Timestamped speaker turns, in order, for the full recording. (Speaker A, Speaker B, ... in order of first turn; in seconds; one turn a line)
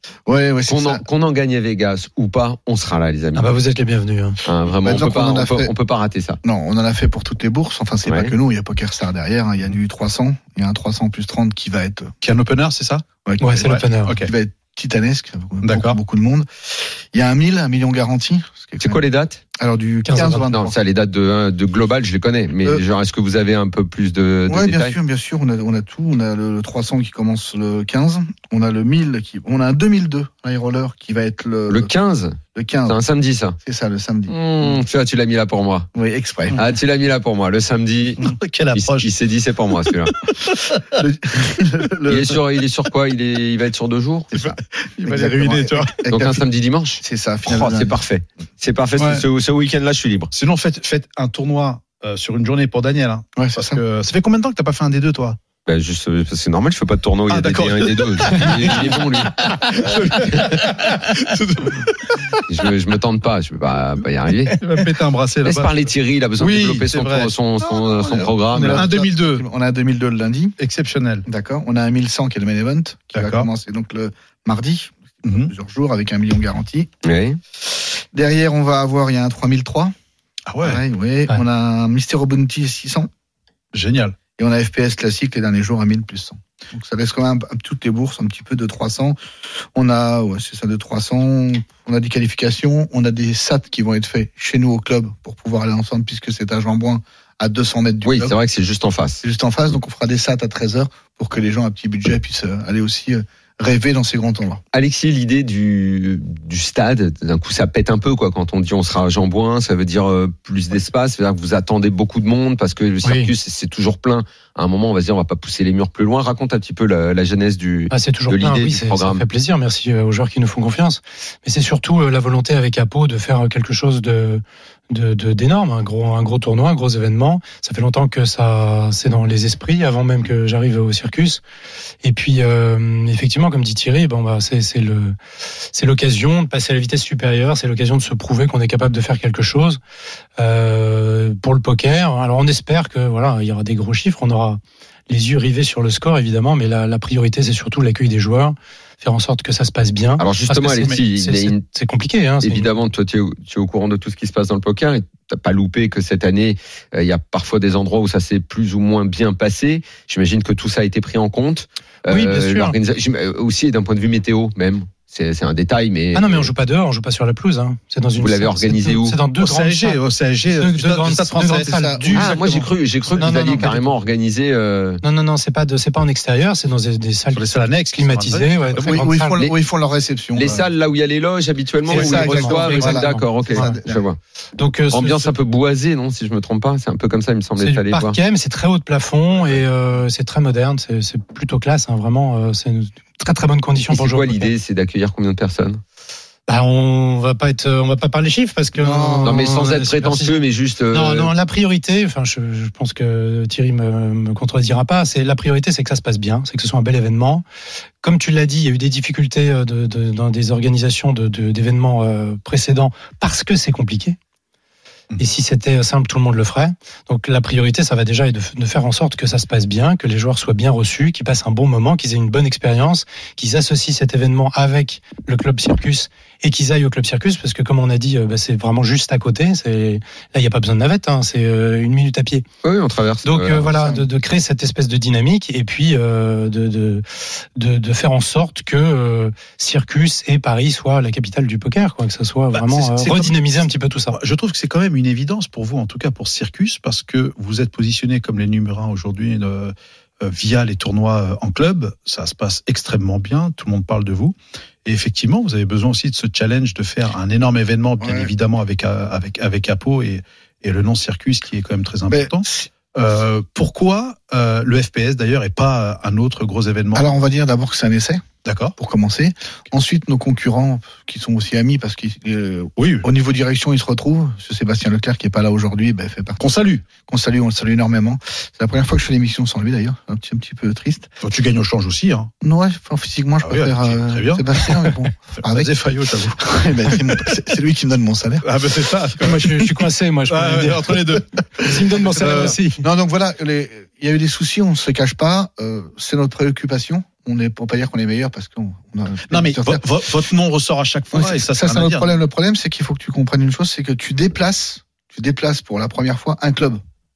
Speaker A: 0.3-1.0
Speaker B: 0.7-3.5
Speaker C: 3.4-4.4
Speaker B: 4.5-6.4
Speaker A: 4.8-5.7
Speaker A: 6.4-12.1
Speaker B: 8.1-8.3
Speaker D: 12.2-13.1
Speaker A: 13.2-19.0
Speaker C: 13.4-14.1
Speaker D: 13.6-14.3
Speaker D: 15.6-16.0
Speaker B: 18.8-19.4
Speaker A: 19.6-20.8
Speaker C: 20.1-20.5
Speaker B: 20.3-25.0
Speaker A: 24.5-31.9
Speaker B: 31.7-33.6
Speaker A: 32.5-33.0
Speaker A: 33.6-34.4
Speaker B: 34.3-35.9
Speaker A: 36.0-36.6
Speaker B: 36.5-40.1
Speaker D: 38.2-39.1
Speaker D: 40.3-40.9
Speaker A: 40.9-42.4
Speaker B: 42.1-44.4
Speaker D: 44.3-46.0
Speaker A: 44.4-46.5
Speaker B: 46.1-50.3
Speaker A: 47.0-48.0
Speaker D: 49.0-49.2
Speaker D: 50.3-55.4
Speaker A: 53.4-53.8
Speaker B: 55.7-60.6
Speaker D: 57.3-62.4
Speaker B: 62.5-64.6
Speaker D: 64.5-67.3
Speaker B: 65.4-68.9
Speaker A: 67.9-70.6
Speaker D: 68.5-69.4
Speaker D: 70.6-71.3
Speaker A: 71.3-76.9
Speaker D: 73.1-73.5
Speaker D: 75.2-75.5
Speaker B: 77.0-77.4
Speaker A: 78.1-79.9
Speaker D: 80.5-80.8
Speaker A: 80.6-83.1
Speaker D: 83.7-84.2
Speaker A: 84.4-89.2
Speaker A: 89.8-98.3
Speaker B: 98.0-99.2
Speaker A: 99.2-104.6
Speaker B: 104.7-119.2
Speaker C: 113.0-113.3
Speaker C: 117.9-131.4
Speaker C: 132.0-135.2
Speaker C: 135.7-139.8
Speaker C: 140.4-152.7
Speaker B: 150.2-151.7
Speaker B: 152.4-166.5
Speaker C: 162.1-162.8
Speaker C: 166.1-170.0
Speaker B: 168.2-169.2
Speaker D: 169.4-171.8
Speaker C: 170.5-172.4
Speaker A: 171.6-172.7
Speaker B: 172.1-175.0
Speaker C: 173.2-173.8
Speaker C: 175.0-179.4
Speaker D: 177.3-179.0
Speaker A: 178.8-180.7
Speaker B: 180.4-184.2
Speaker C: 181.9-183.8
Speaker A: 181.9-184.0
Speaker C: 184.6-185.3
Speaker B: 184.9-188.2
Speaker C: 187.6-194.5
Speaker B: 193.9-195.8
Speaker C: 196.5-200.3
Speaker A: 198.8-199.4
Speaker B: 199.2-201.3
Speaker C: 200.9-207.4
Speaker C: 208.0-214.2
Speaker C: 215.2-232.4
Speaker B: 232.6-234.0
Speaker C: 233.2-237.0
Speaker C: 237.6-244.2
Speaker D: 242.5-267.1
Speaker A: 258.0-258.3
Speaker A: 262.1-262.5
Speaker A: 266.9-268.2
Speaker D: 268.4-268.8
Speaker A: 268.8-281.1
Speaker D: 272.8-273.1
Speaker D: 276.4-276.9
Speaker D: 281.2-282.3
Speaker A: 282.4-285.7
Speaker D: 283.4-284.4
Speaker D: 285.4-287.3
Speaker A: 286.3-288.5
Speaker D: 288.4-292.6
Speaker C: 289.2-291.0
Speaker C: 291.6-292.8
Speaker A: 292.4-299.8
Speaker D: 299.3-302.1
Speaker A: 301.1-306.8